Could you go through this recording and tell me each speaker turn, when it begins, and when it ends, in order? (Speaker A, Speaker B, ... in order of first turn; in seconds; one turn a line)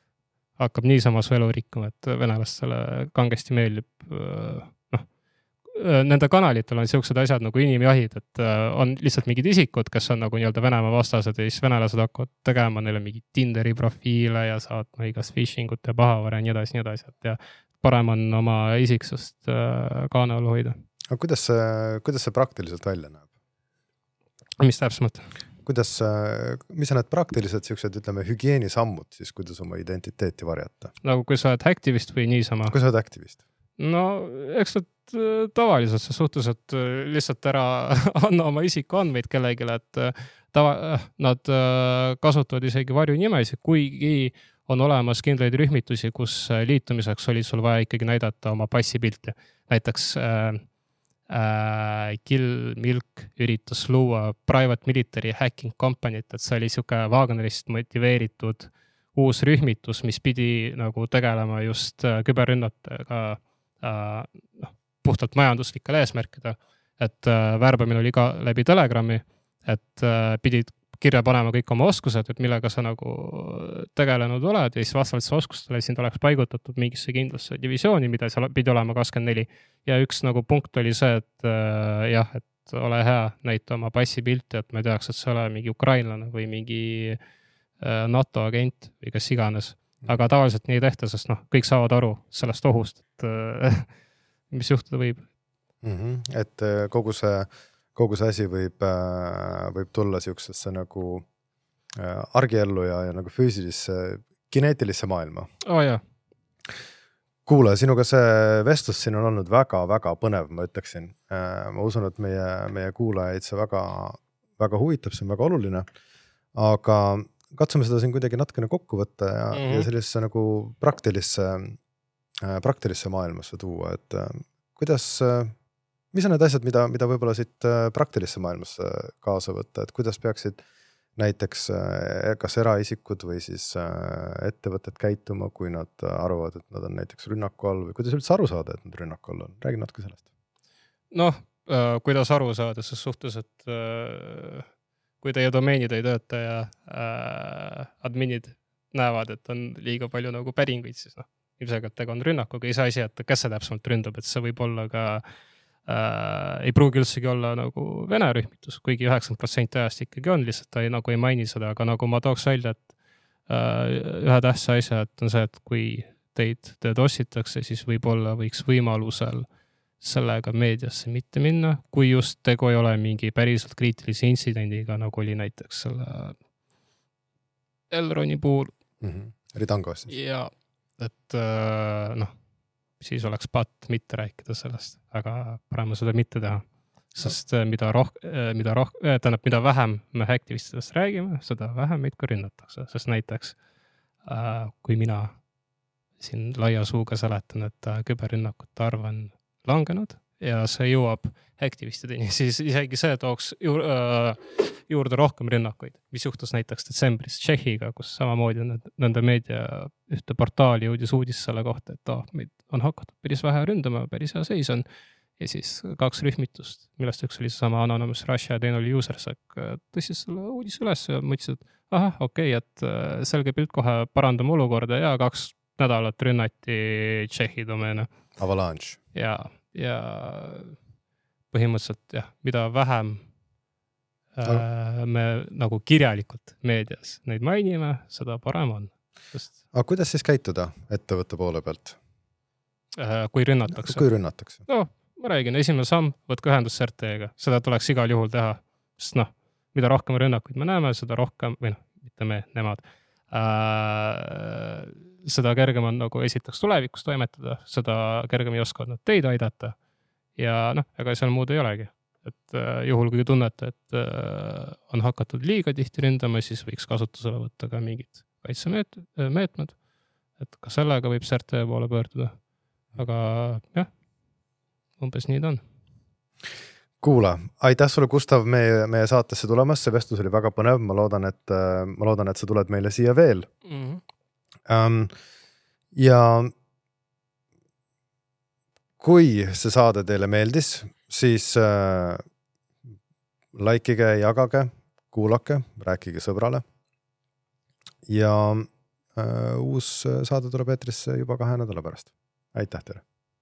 Speaker A: 0.6-5.1
Speaker A: 5.7-20.8
Speaker B: 21.1-23.3
Speaker A: 24.6-25.3
Speaker B: 25.6-30.9
Speaker A: 31.0-32.8
Speaker B: 32.7-33.4
Speaker A: 33.8-50.6
Speaker A: 51.3-87.2
Speaker A: 87.8-93.9
Speaker A: 94.5-95.2
Speaker B: 95.8-101.3
Speaker B: 102.0-105.5
Speaker A: 105.6-106.0
Speaker B: 107.5-115.8
Speaker B: 116.5-121.8
Speaker A: 119.5-119.9
Speaker B: 122.4-125.5
Speaker B: 126.1-130.6
Speaker B: 131.2-140.2
Speaker A: 141.1-144.7
Speaker A: 145.2-155.2
Speaker A: 155.9-162.9
Speaker A: 163.5-169.5
Speaker A: 170.0-176.4
Speaker A: 177.9-178.7
Speaker B: 179.0-180.1
Speaker A: 180.1-182.3
Speaker A: 183.0-193.6
Speaker A: 194.2-195.3
Speaker A: 196.2-214.8
Speaker A: 215.4-228.1
Speaker B: 228.4-229.0
Speaker A: 229.1-230.8
Speaker A: 231.5-233.2
Speaker A: 234.4-239.5
Speaker B: 239.7-242.0
Speaker A: 243.0-244.1
Speaker B: 243.7-244.7
Speaker A: 244.7-259.8
Speaker A: 260.4-269.8
Speaker A: 270.4-272.4
Speaker A: 272.9-273.9
Speaker A: 275.0-275.6
Speaker B: 277.0-283.5
Speaker A: 283.7-284.0
Speaker B: 284.7-285.1
Speaker B: 285.9-286.5
Speaker B: 289.0-292.2
Speaker B: 293.6-296.6
Speaker B: 298.1-303.0